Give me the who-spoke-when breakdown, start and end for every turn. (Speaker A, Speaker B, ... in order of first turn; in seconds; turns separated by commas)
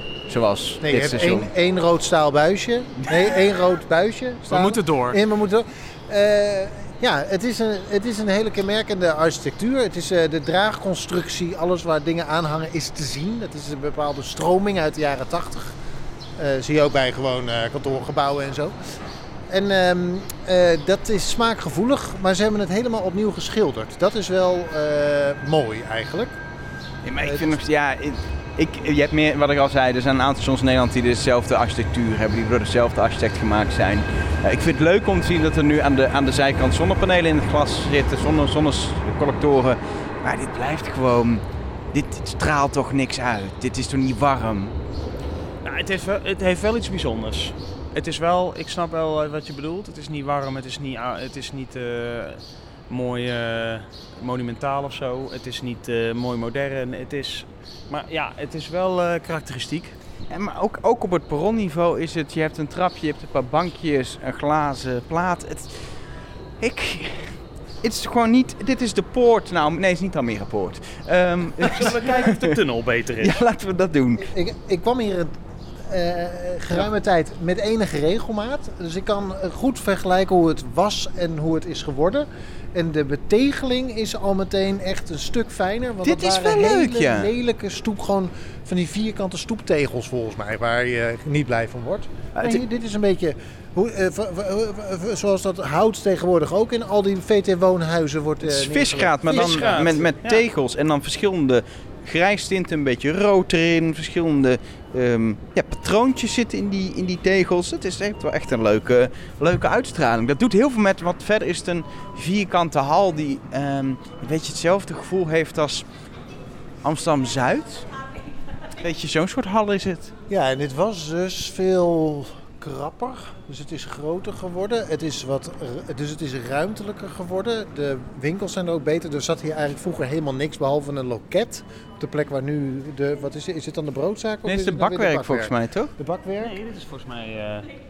Speaker A: 0.3-1.5, Speaker B: 0.8-15.8, Speaker C: 4.5-5.2, Speaker B: 16.4-18.8, Speaker B: 19.5-26.4, Speaker A: 27.0-44.8, Speaker B: 27.2-27.6, Speaker C: 45.6-59.9, Speaker A: 60.3-66.0, Speaker A: 66.6-72.6, Speaker C: 71.6-73.4, Speaker A: 73.2-74.3, Speaker B: 74.2-100.0, Speaker A: 86.0-87.3, Speaker A: 92.3-92.6, Speaker A: 98.4-115.8, Speaker C: 99.3-100.4, Speaker A: 116.8-117.9, Speaker A: 118.8-120.1, Speaker B: 120.3-136.5, Speaker A: 134.4-135.9, Speaker C: 136.4-137.7